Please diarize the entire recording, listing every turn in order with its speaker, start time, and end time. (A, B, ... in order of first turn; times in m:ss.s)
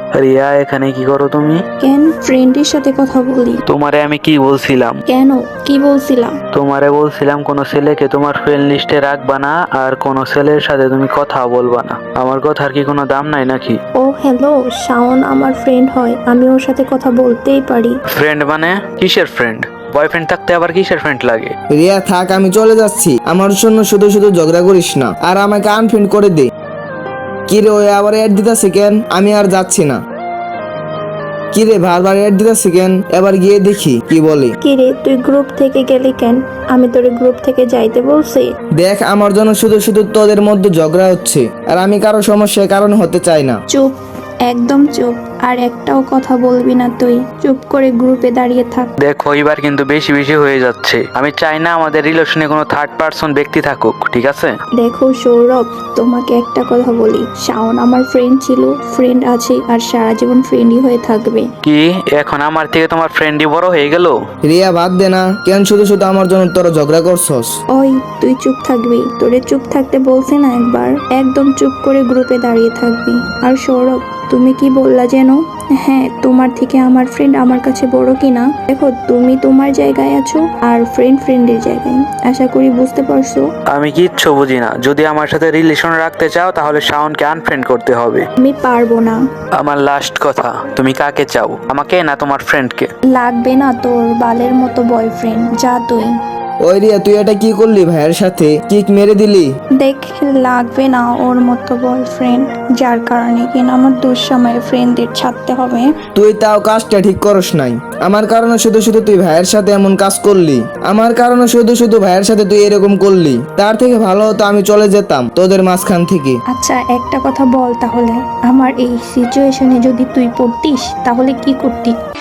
0:00.1-0:01.6 A
0:01.8-0:03.6 B
0:03.7-0:05.0 A
0:05.1-0:06.4 B
0:06.5-0:13.8 A
0:14.0-0:18.0 B
0:18.1-0:21.5 A
0:21.7-0:26.5 C
0:27.5-0:30.0 C
0:31.5-0:34.6 C
0:34.6-0:38.5 B
0:38.8-0:43.6 C
0:44.4-0:48.9 B
0:49.0-0:54.6 A
0:54.8-1:01.5 B
1:01.6-1:04.2 A
1:04.4-1:07.5 C
1:07.7-1:23.4 B
1:23.7-1:28.2 A
1:28.4-1:29.2 B
1:29.6-1:32.9 A
1:33.1-1:36.1 B
1:36.6-1:39.5 C
1:39.8-1:45.9 B
1:46.2-1:56.4 C
1:56.5-2:02.0 B